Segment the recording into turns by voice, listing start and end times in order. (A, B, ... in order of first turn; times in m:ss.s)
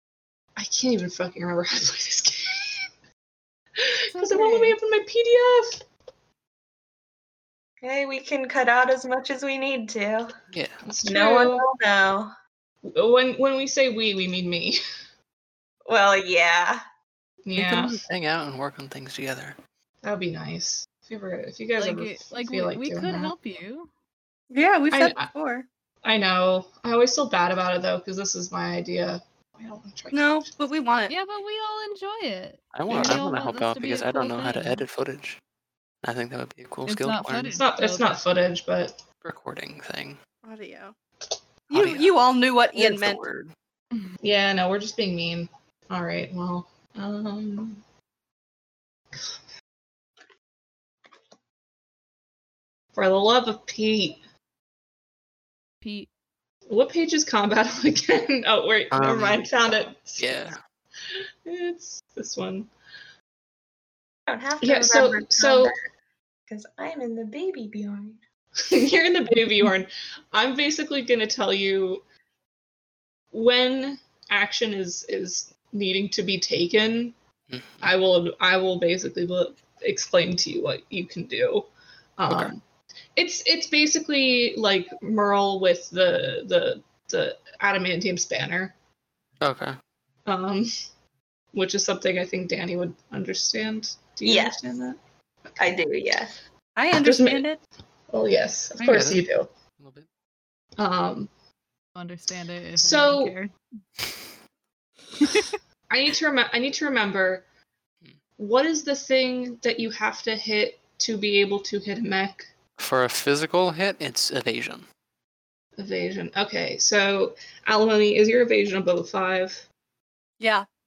0:00.6-0:02.9 A
0:03.8-0:05.8 A
0:04.1-0:04.8 B
0:07.8-0:10.3 C
0:10.5-0:10.8 D
0:10.8-0:11.7 A
0:11.0-0:12.3 C
0:12.8-0:14.8 A
0:15.9-0:16.8 C
0:17.5-0:18.0 A
0:17.6-0:19.6 D
0:20.0-0:23.4 A
0:21.8-0:23.9 B
0:24.5-0:25.7 E
0:24.9-0:25.3 A
0:26.0-0:30.5 A
0:30.1-0:31.1 E
0:31.1-0:34.8 B
0:32.7-0:35.4 D
0:32.9-0:33.2 A
0:36.0-0:37.6 D
0:36.9-0:38.2 B
0:37.6-0:39.0 A
0:39.2-0:40.2 D
0:40.4-0:40.9 E
0:41.7-0:43.2 E
0:41.7-0:42.1 D
0:42.7-0:43.5 D
0:44.2-0:47.8 A
0:53.0-0:54.2 A
0:55.8-0:56.1 B
0:56.7-1:00.5 A
0:58.9-0:59.4 D
1:00.2-1:00.6 D
1:01.5-1:02.7 A
1:04.3-1:05.8 C
1:04.6-1:05.8 A
1:06.5-1:08.2 C
1:08.7-1:12.0 A
1:13.3-1:17.2 A
1:17.5-1:17.9 D
1:17.8-1:22.6 A
1:23.2-1:28.8 A
1:29.4-1:29.8 D
1:30.3-1:30.7 A
1:31.5-1:35.7 A
1:34.2-1:34.6 C
1:35.6-1:36.4 C
1:36.8-1:37.6 E
1:37.0-1:37.4 A
1:38.1-1:39.5 A
1:38.8-1:39.2 D
1:39.8-1:40.1 D
1:40.8-1:41.3 A
1:42.0-1:43.5 B
1:42.8-1:43.4 A
1:45.2-1:45.5 B
1:45.9-1:47.4 A
1:48.4-1:52.5 A
1:52.8-1:54.9 D
1:55.8-1:59.6 A
2:00.4-2:00.7 E